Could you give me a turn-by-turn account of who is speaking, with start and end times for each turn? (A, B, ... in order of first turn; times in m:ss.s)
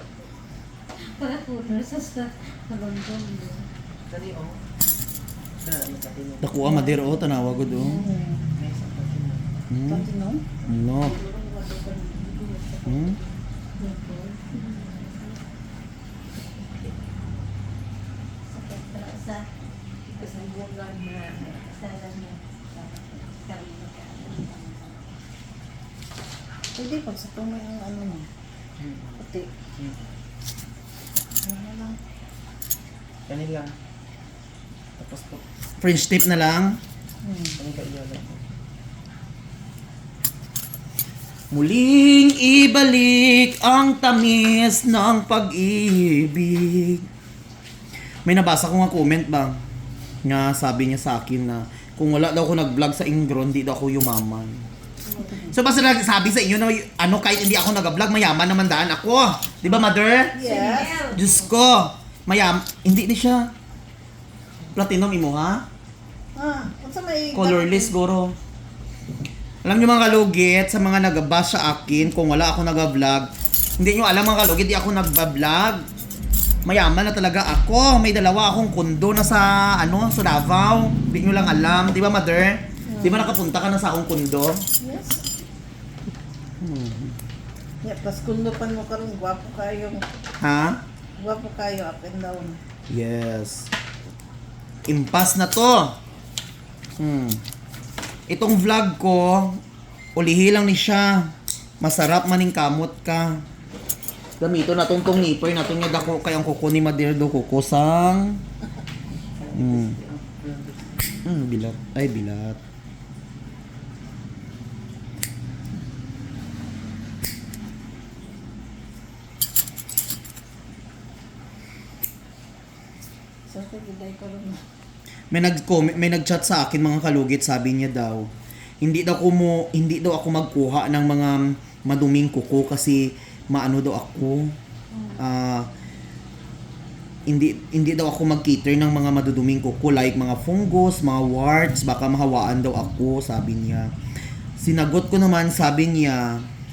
0:01.0-0:03.7 A
0:04.1-0:04.6 B
0:05.6-0:06.7 B
0:06.4-0:08.0 C
0:06.6-0:07.1 D
0:07.7-0:08.5 D
0:08.5-0:09.6 B
0:09.7-0:10.1 C
0:09.9-0:10.5 D
0:10.7-0:11.2 C
0:11.0-0:13.3 E
0:12.8-0:13.2 C
0:13.8-0:14.5 A
0:14.5-0:15.4 E
0:18.5-0:19.5 A
0:20.1-0:21.8 E
0:20.2-0:20.6 A
0:21.4-0:25.1 A
0:26.8-0:28.3 D
0:28.8-0:29.2 B
0:29.2-0:29.5 D
0:31.4-0:32.0 D
0:33.3-0:33.7 B
0:35.0-0:35.4 B
0:35.8-0:36.8 C
0:37.2-0:37.6 D
0:37.6-0:38.4 B
0:41.5-0:47.1 C
0:48.3-0:49.6 C
0:50.2-0:54.6 C
0:55.1-0:55.4 A
0:55.5-1:00.4 C
1:00.3-1:01.0 D
1:00.4-1:01.2 A
1:01.1-1:03.5 C
1:04.7-1:05.6 C
1:06.4-1:07.9 D
1:07.3-1:08.4 C
1:09.6-1:15.8 C
1:16.6-1:24.6 C
1:22.9-1:23.4 D
1:24.8-1:25.3 D
1:26.6-1:27.2 C
1:27.8-1:30.1 D
1:30.4-1:30.8 C
1:31.2-1:32.6 D
1:32.9-1:33.7 C
1:34.9-1:36.0 C
1:37.0-1:37.4 C
1:38.3-1:39.6 C
1:40.2-1:43.4 C
1:44.4-1:48.4 C
1:49.4-1:50.9 B
1:49.5-1:50.0 C
1:51.2-1:52.6 C
2:03.5-2:04.6 D
2:05.3-2:08.3 C
2:08.8-2:14.6 C
2:15.2-2:15.7 C
2:17.3-2:23.9 C
2:24.6-2:26.4 C